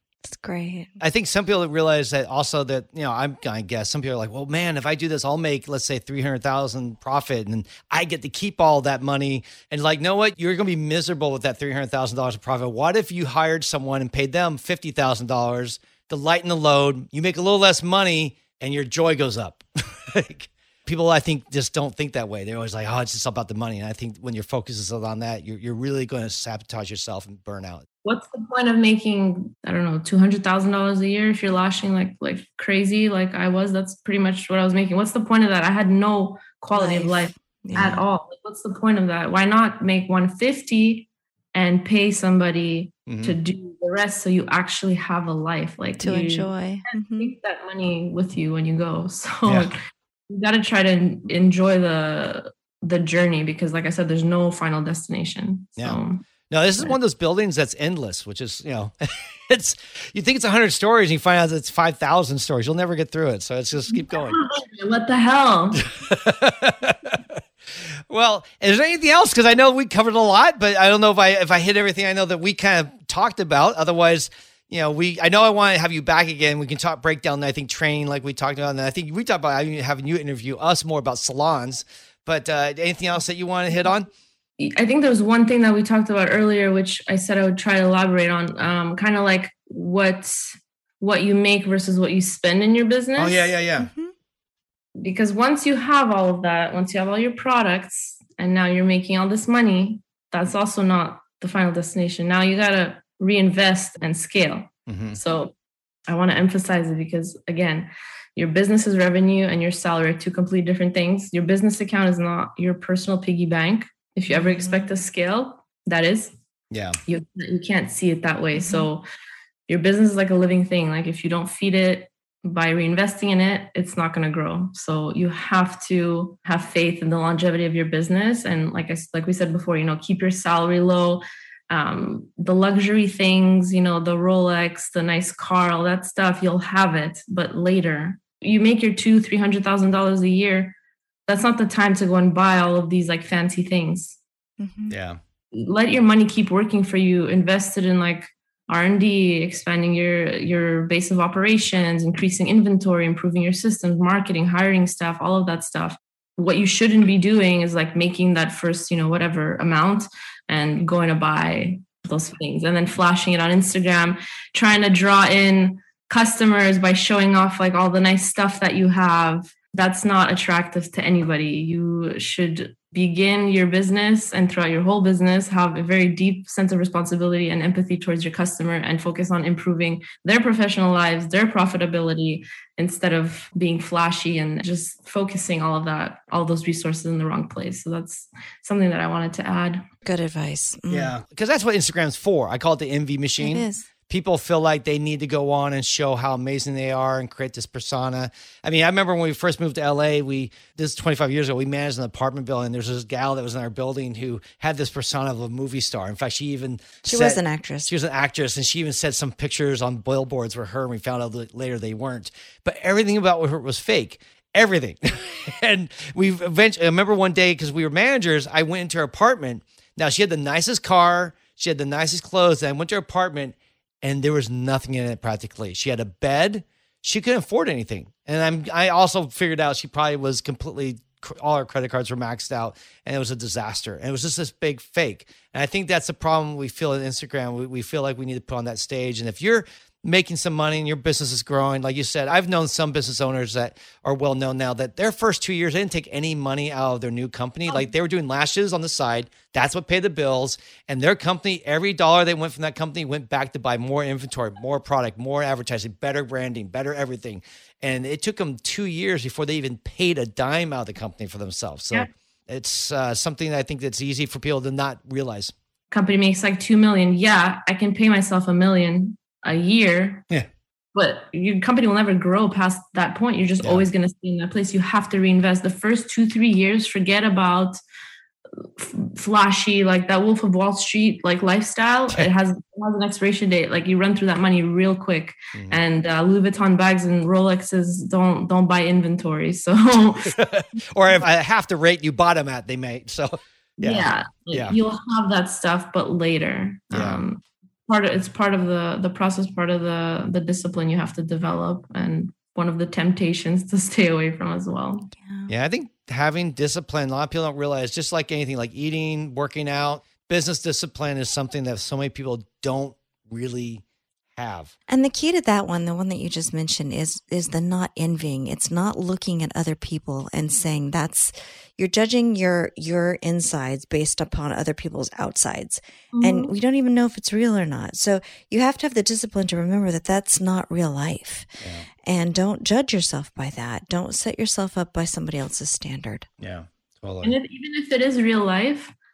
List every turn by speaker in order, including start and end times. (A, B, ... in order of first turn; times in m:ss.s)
0:00.2-0:01.0 A
0:01.0-0:27.8 B
0:28.0-0:56.2 C
0:36.7-0:38.0 A
0:43.1-0:43.4 B
0:46.0-0:47.3 A
0:49.4-0:49.7 B
0:56.5-1:04.4 B
1:03.9-1:05.8 C
1:05.7-1:07.4 B
1:08.1-1:24.1 B
1:24.6-1:33.5 C
1:33.2-1:33.9 B
1:33.8-1:34.1 A
1:35.0-1:45.5 C
1:44.9-1:45.2 B
1:46.1-1:56.3 C
1:54.3-1:54.8 A
1:56.7-1:57.0 B
1:57.0-1:59.0 C
1:58.5-1:58.9 A
1:59.7-2:24.2 C
2:24.6-2:25.0 A
2:24.9-2:25.2 B
2:25.5-3:09.8 C
3:10.0-3:11.1 A
3:10.9-4:25.5 B
3:13.4-3:13.9 A
3:27.1-3:27.9 A
4:25.9-4:30.2 C
4:30.9-4:37.8 C
4:38.6-4:50.4 C
4:45.5-4:45.8 B
4:50.2-4:54.8 B
4:53.8-5:05.1 C
4:56.9-4:57.2 B
5:05.1-5:05.5 A
5:05.5-5:13.8 B
5:14.3-5:14.7 B
5:14.9-5:36.3 A
5:26.1-5:26.5 C
5:36.4-5:37.3 B
5:37.2-5:38.9 C